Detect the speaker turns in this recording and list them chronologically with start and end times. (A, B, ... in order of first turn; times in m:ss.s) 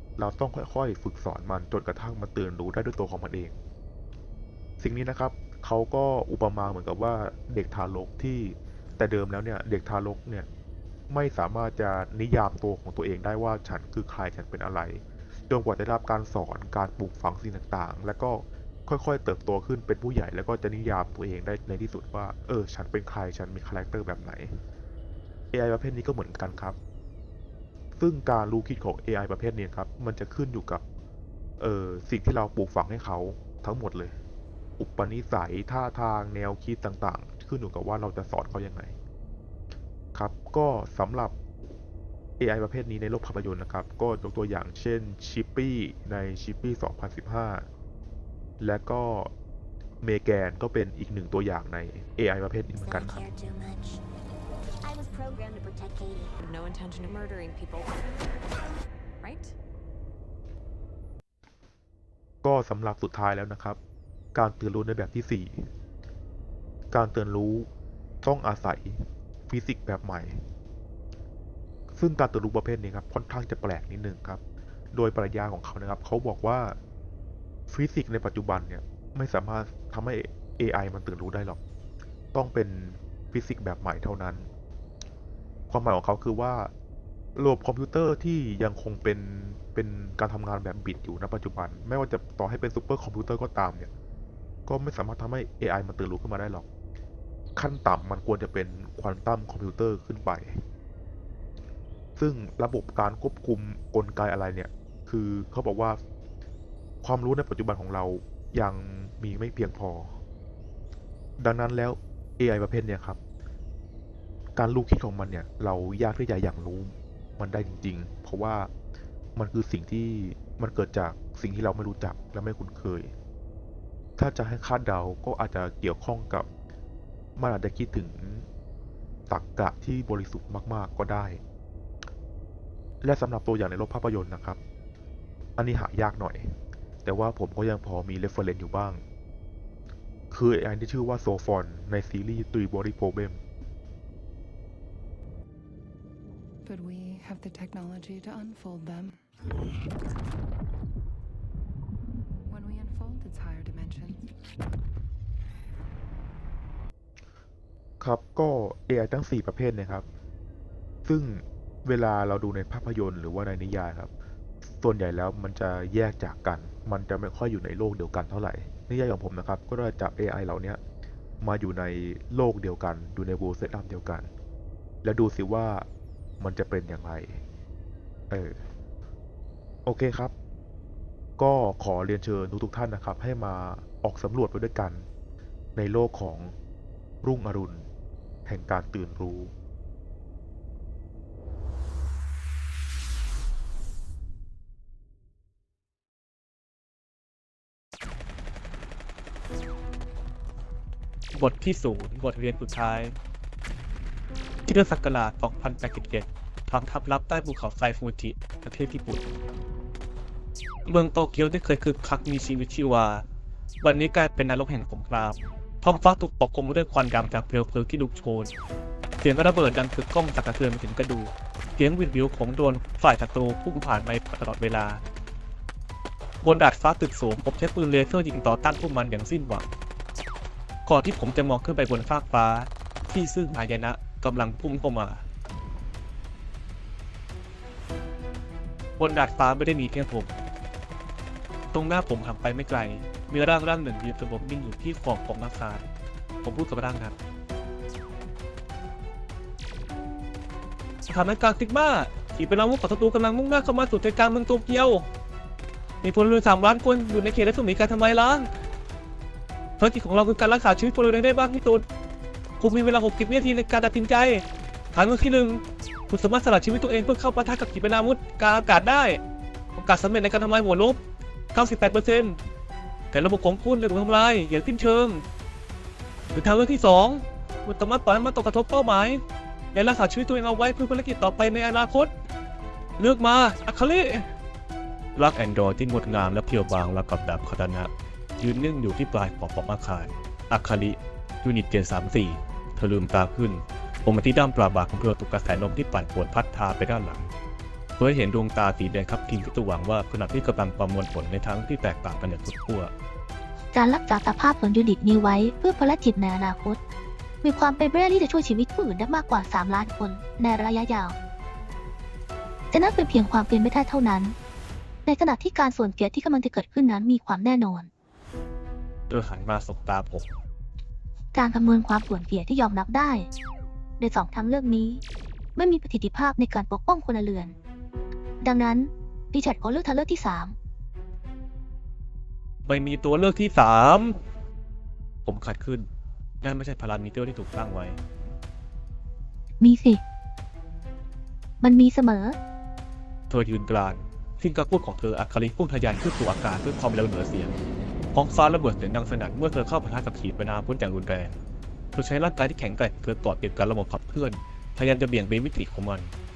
0:00.2-0:03.6 A
0:04.8-0:10.5 A
0:11.1-0:24.6 A
0:25.5-0:26.8 A
0:28.0-0:30.8 A
0:31.6-0:34.2 A
0:34.8-0:39.0 A
0:40.1-0:41.4 A
0:42.4-0:47.7 A
0:48.6-0:49.3 A
0:50.0-0:53.2 A
0:52.8-0:54.0 B
0:54.8-0:56.4 B
0:56.4-0:58.3 C
0:59.2-0:59.6 C
1:02.4-1:03.8 A
1:04.3-1:05.7 A
1:06.9-1:07.7 A
1:08.2-1:10.4 A
1:12.0-1:14.4 A
1:14.9-1:16.8 A
1:17.7-1:21.6 A
1:22.3-1:24.5 A
1:25.7-1:26.7 A
1:27.4-1:33.9 A
1:34.7-1:36.7 A
1:37.6-1:40.6 A
1:42.2-1:46.0 A
1:47.0-1:50.2 A
1:51.4-1:53.2 A
1:54.6-1:58.7 A
1:59.4-2:03.1 A
2:04.2-2:06.5 A
2:07.4-2:08.5 A
2:09.3-2:11.4 A
2:13.0-2:14.6 A
2:15.6-2:19.0 A
2:20.3-2:23.4 A
2:26.6-2:29.2 D
2:32.5-2:34.2 D
2:38.0-2:40.1 A
2:41.1-2:44.1 A
2:44.6-2:50.8 A
2:51.4-2:54.3 A
2:55.0-2:55.9 A
2:56.4-2:57.4 A
2:58.3-2:58.7 A
2:59.8-3:00.3 A
3:01.4-3:05.1 A
3:05.8-3:06.5 A
3:07.2-3:07.9 A
3:08.5-3:09.5 A
3:21.3-3:23.2 E
3:24.7-3:29.2 E
3:30.9-3:33.3 E
3:33.8-3:38.5 E
3:39.2-3:45.0 E
3:46.4-3:49.7 E
3:50.9-3:55.2 E
3:59.0-4:00.3 E
4:01.7-4:05.9 E
4:06.4-4:07.2 E
4:11.1-4:15.1 E
4:16.0-4:18.5 E
4:19.8-4:21.8 E
4:22.6-4:29.2 E
4:29.8-4:31.0 E
4:31.5-4:32.4 E
4:33.1-4:35.2 E
4:36.3-4:39.2 E
4:39.7-4:42.1 E
4:43.0-4:44.3 E
4:45.2-4:57.3 E
4:58.0-5:02.9 E
5:03.7-5:06.8 F
5:07.4-5:11.2 F
5:12.7-5:14.4 F
5:15.1-5:17.9 F
5:19.1-5:20.3 E
5:21.3-5:23.3 F
5:24.0-5:25.0 F
5:25.6-5:27.6 F
5:28.4-5:30.6 F
5:32.7-5:34.2 E
5:35.2-5:35.9 E
5:36.4-5:38.0 E
5:39.6-5:40.0 F
5:41.6-5:42.4 F
5:43.3-5:47.6 E
5:48.1-5:51.4 E
5:51.9-5:56.1 E